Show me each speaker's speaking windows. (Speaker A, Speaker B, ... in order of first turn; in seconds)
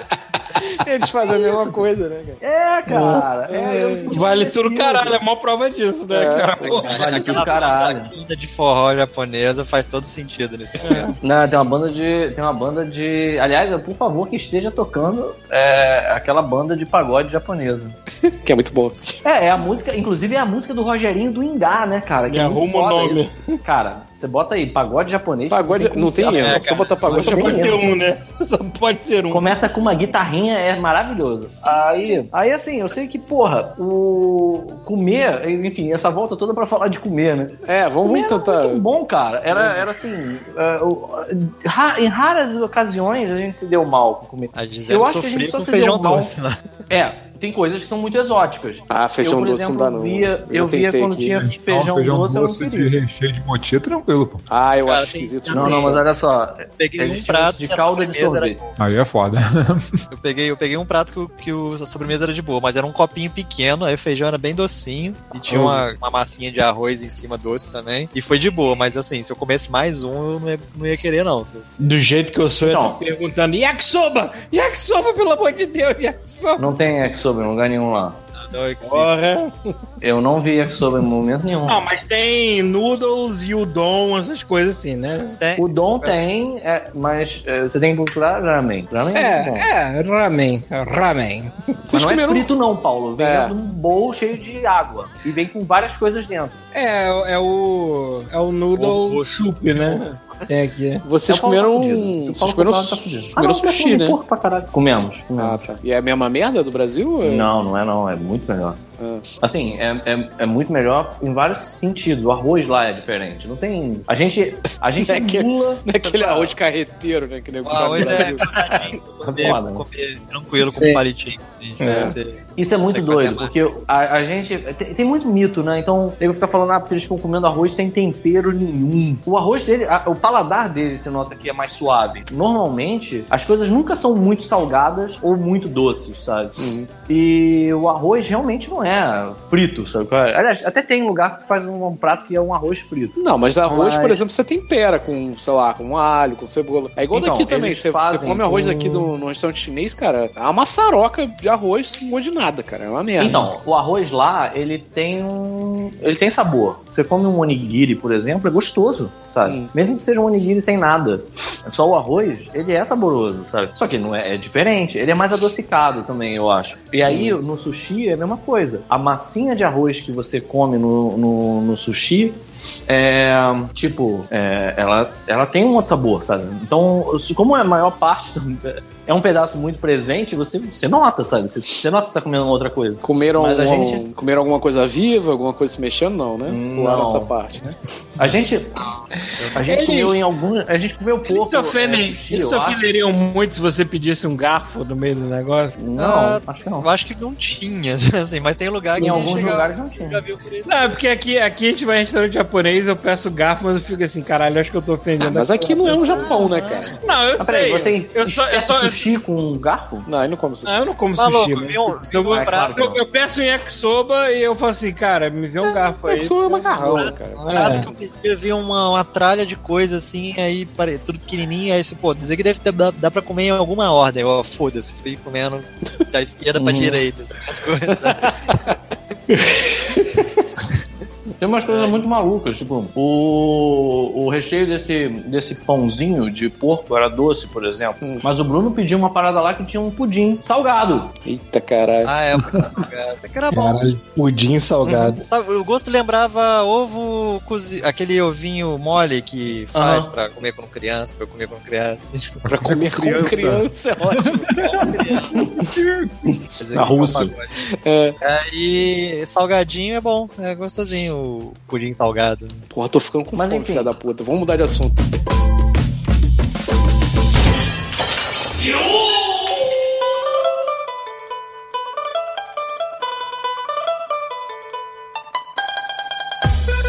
Speaker A: 0.6-2.4, 3.5-4.1, 6.1-6.6, 18.2-19.1, 25.5-27.7, 37.6-38.8, 39.5-39.8, 48.9-51.4, 54.5-56.0, 91.9-92.5, 93.2-93.5, 101.0-104.2, 105.4-107.5, 109.0-109.2, 115.0-118.5, 121.9-122.1, 136.6-136.9, 143.2-153.5, 159.4-159.7, 167.0-167.4, 183.0-187.8, 205.2-207.0, 210.1-210.8, 216.0-217.8, 227.9-228.8, 238.0-238.2, 241.2-242.1, 252.5-254.3, 257.8-258.1, 262.7-265.0
Speaker B: 2.4-5.2, 6.8-8.1, 10.9-17.9, 19.2-27.9, 29.3-46.3, 46.9-52.9, 55.5-58.5, 72.6-73.0, 76.6-78.2, 80.0-81.8, 85.6-89.7, 91.9-96.6, 101.2-105.7, 107.2-108.8, 109.4-116.5, 117.9-119.8, 122.6-144.2, 147.1-149.1, 153.2-184.0, 186.4-188.8, 189.5-192.8, 195.8-196.8, 198.9-200.2, 207.4-210.1, 212.3-213.0, 226.6-227.0, 231.4-241.1, 249.7-250.1, 255.4-257.3, 263.3-263.9
Speaker C: 2.9-3.2, 4.1-6.9, 22.3-23.5, 27.1-29.5, 31.6-32.3, 65.5-65.8, 71.8-76.7, 78.8-79.7, 81.7-85.4, 89.1-91.5, 96.7-101.0, 120.7-121.0, 121.8-122.2, 189.6-190.2, 191.2-195.8, 199.0-199.3, 200.7-206.3, 207.0-209.1, 210.7-216.7, 217.4-217.9, 229.3-230.1, 243.5-245.2
Speaker D: 6.6-11.2, 26.3-27.7, 44.5-46.6, 54.8-56.0, 56.8-58.8, 60.1-71.6, 78.3-79.1, 85.4-86.3, 98.7-99.3, 117.6-123.7, 188.8-189.6, 195.9-200.9, 206.0-206.9, 211.2-212.9, 216.5-228.3, 231.7-232.0, 242.0-243.8, 244.8-252.4, 254.0-255.5, 256.6-257.5, 258.2-262.6
Speaker E: 51.4-54.4, 58.8-59.9, 252.4-253.6